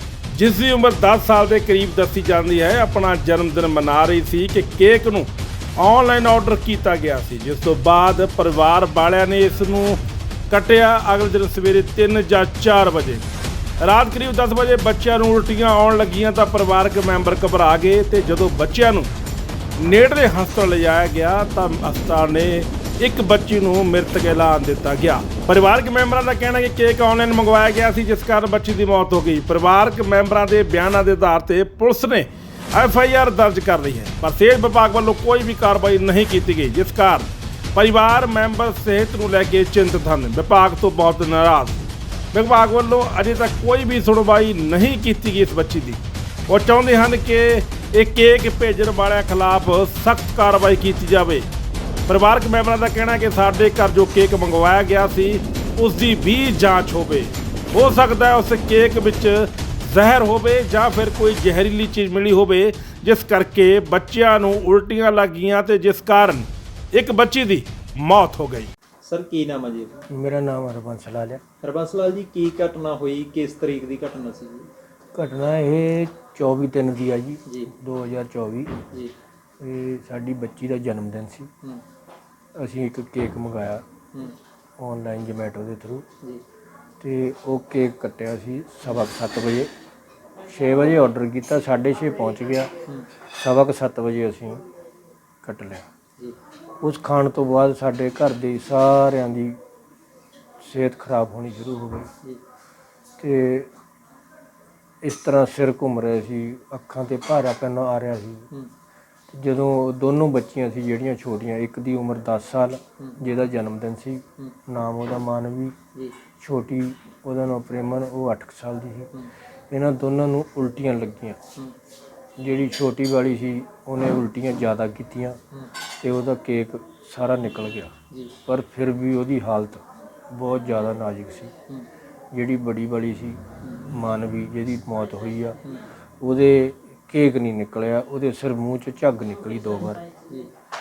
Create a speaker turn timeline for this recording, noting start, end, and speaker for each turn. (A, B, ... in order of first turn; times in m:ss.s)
0:00.3-0:13.2 A
0:13.8-0:19.1 A
0:19.8-0:41.8 A
0:42.3-0:51.5 A
0:52.1-1:08.7 A
1:09.0-1:10.0 B
1:10.1-1:11.4 C
1:11.6-1:14.7 B
1:15.1-1:18.8 C
1:17.5-1:17.7 B
1:19.6-1:21.5 C
1:22.6-1:23.8 C
1:24.8-1:26.1 C
1:27.0-1:29.7 C
1:30.5-1:32.7 C
1:33.4-1:34.6 C
1:35.4-1:35.9 C
1:36.8-1:39.6 C
1:40.6-1:42.1 C
1:43.2-1:43.7 C
1:45.0-1:48.5 C
1:49.3-1:55.8 C
1:56.4-1:59.1 C
1:59.7-2:01.4 C
2:02.4-2:05.4 C
2:06.0-2:07.9 C
2:08.1-2:08.4 B
2:08.5-2:11.5 C
2:12.3-2:15.6 C
2:16.2-2:20.0 C